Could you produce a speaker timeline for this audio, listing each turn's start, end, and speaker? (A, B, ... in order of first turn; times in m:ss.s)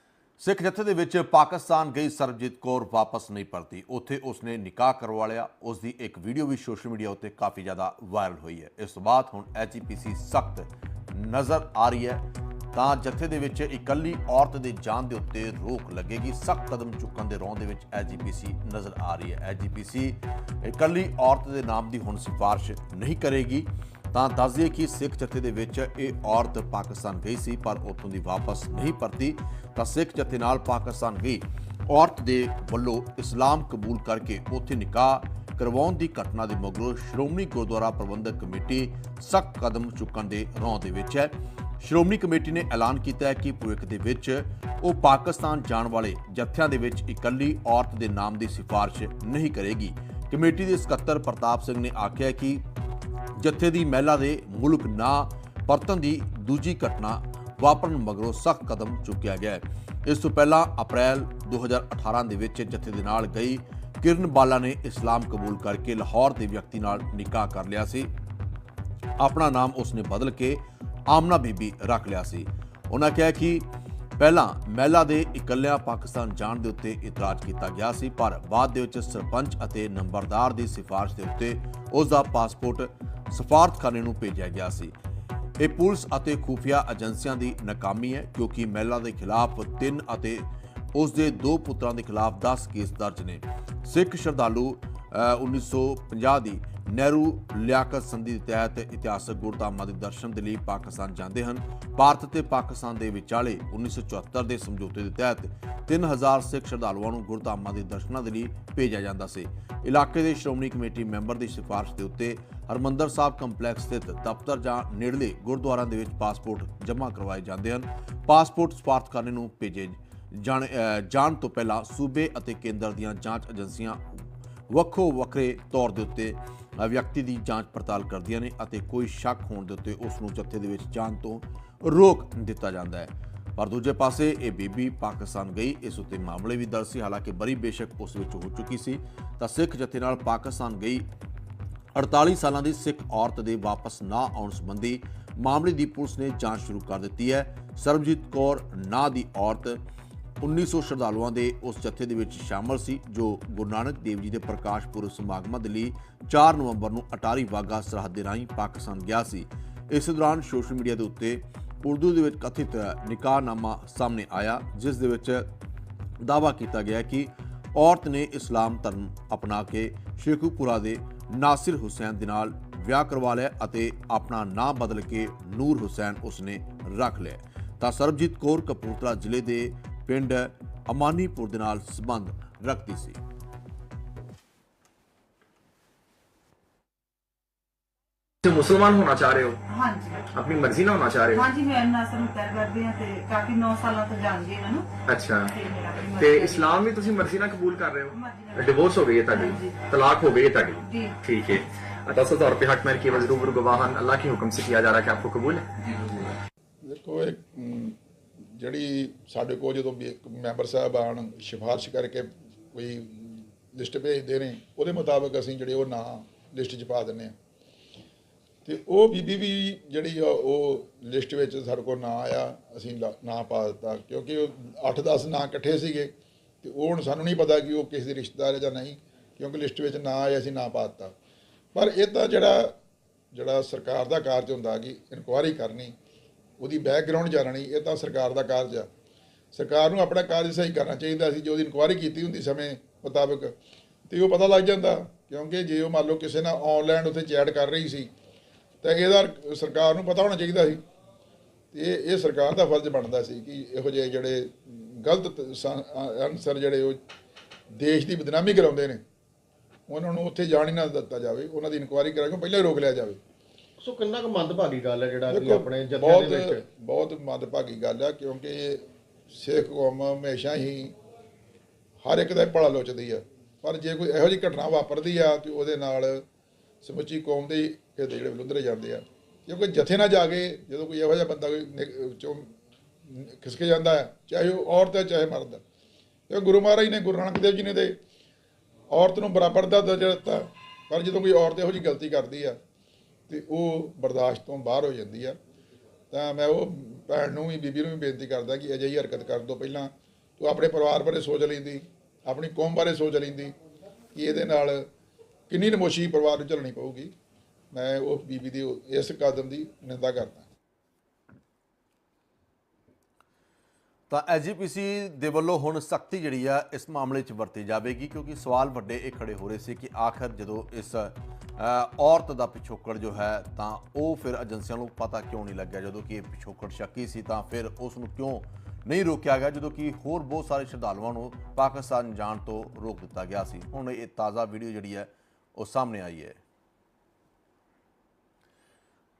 0:00.4-0:52.6 A
0:53.3-1:08.1 A
1:09.2-1:24.9 A
1:25.6-2:21.0 A
2:21.9-2:29.8 A
2:30.4-2:45.5 A
2:46.2-3:03.2 A
3:08.4-3:09.6 B
3:09.7-3:10.3 C
3:10.3-3:11.5 B
3:11.3-3:14.9 C
3:15.1-3:15.5 B
3:15.5-3:16.8 C
3:16.2-3:26.4 B
3:18.1-3:18.8 C
3:19.3-3:19.8 C
3:20.8-3:21.2 C
3:26.8-3:37.4 D
3:38.6-3:51.1 D
3:51.7-3:52.8 D
3:53.3-3:55.9 D
3:56.6-3:58.9 D
3:59.5-4:03.5 D
4:04.1-4:08.1 D
4:08.8-4:10.8 D
4:11.7-4:17.0 D
4:17.7-4:19.0 D
4:19.9-4:23.2 D
4:23.8-4:26.6 E
4:25.3-4:31.0 D
4:32.0-4:36.2 D
4:36.8-4:42.5 D
4:43.0-4:45.6 D
4:46.3-4:48.0 D
4:48.9-4:52.6 D
4:53.3-4:55.4 D
4:56.1-5:03.5 D
5:04.1-5:04.9 D
5:05.5-5:07.1 D
5:07.7-5:10.5 D
5:14.1-5:36.4 A